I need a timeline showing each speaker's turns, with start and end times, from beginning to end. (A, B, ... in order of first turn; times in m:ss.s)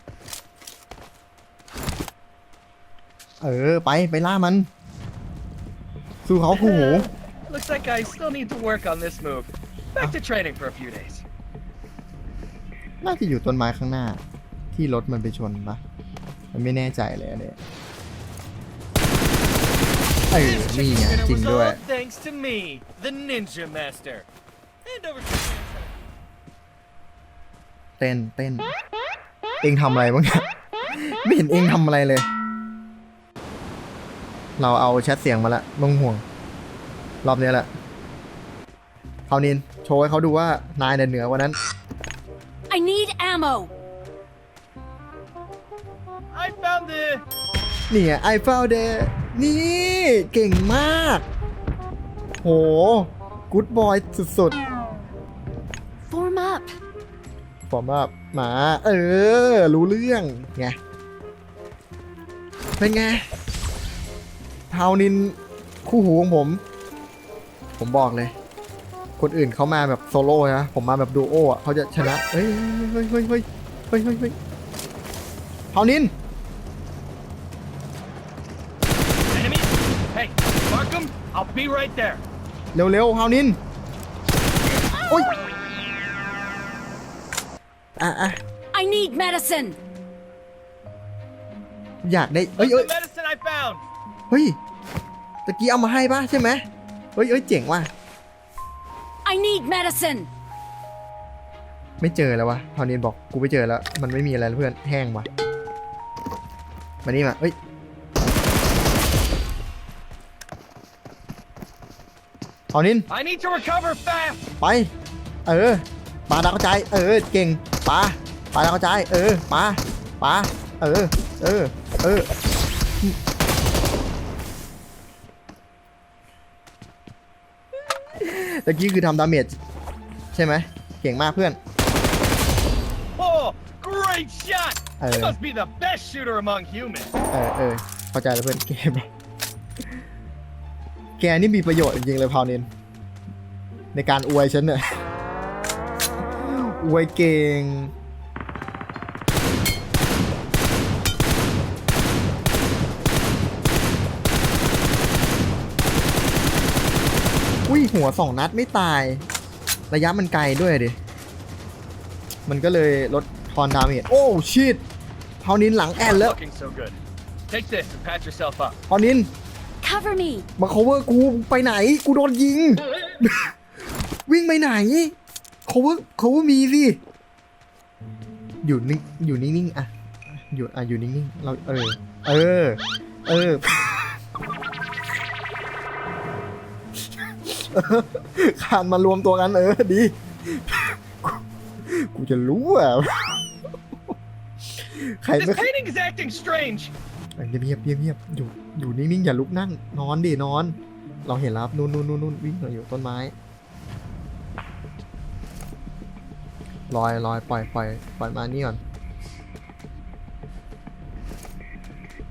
0:03.4-0:04.7 A
0:06.2-0:07.1 A
0:06.5-0:11.2 B
0:13.0-0:14.2 A
0:14.7-0:15.8 A
0:16.5-0:17.6 A
0:20.3-0:21.8 A
0:20.4-0:24.3 B
0:24.8-0:25.9 B
0:28.0-0:28.7 A
0:29.6-0:32.3 A
0:34.6-0:36.2 A
0:37.2-0:37.7 A
0:39.3-0:41.6 A
0:42.7-0:43.7 C
0:46.3-0:47.2 B
0:47.9-0:51.2 A
0:52.4-0:54.6 A
0:56.1-0:56.8 C
0:57.7-1:00.8 A
1:02.8-1:03.3 A
1:04.7-1:06.6 A
1:07.8-1:08.4 A
1:09.2-1:14.4 A
1:15.7-1:16.1 A
1:19.3-1:22.2 B
1:22.7-1:23.6 A
1:28.0-1:28.4 A
1:28.7-1:29.8 C
1:32.0-1:32.9 A
1:32.6-1:33.8 B
1:34.3-1:34.6 A
1:35.5-1:37.9 A
1:39.2-1:40.3 C
1:42.0-1:45.3 A
1:47.0-1:47.6 A
1:52.7-1:53.1 A
1:53.1-1:54.4 B
1:54.6-1:54.9 A
1:55.5-2:02.3 A
2:08.2-2:09.6 A
2:10.3-2:11.6 A
2:13.2-2:17.2 B
2:15.0-2:15.4 A
2:17.3-2:19.1 A
2:21.2-2:22.7 A
2:23.9-2:25.0 A
2:26.4-2:27.9 A
2:37.7-2:39.3 A
2:39.9-2:41.0 A
2:42.5-2:44.8 A
2:45.4-2:46.4 A
2:46.0-2:48.8 B
2:48.9-2:49.3 A
2:49.8-2:50.5 C
2:50.6-2:53.6 A
2:54.2-2:55.1 A
2:55.7-2:57.0 A
2:58.6-3:04.1 A
3:07.4-3:13.4 A
3:14.8-3:15.7 A
3:15.4-3:16.9 B
3:17.4-3:23.4 A
3:26.9-3:28.8 A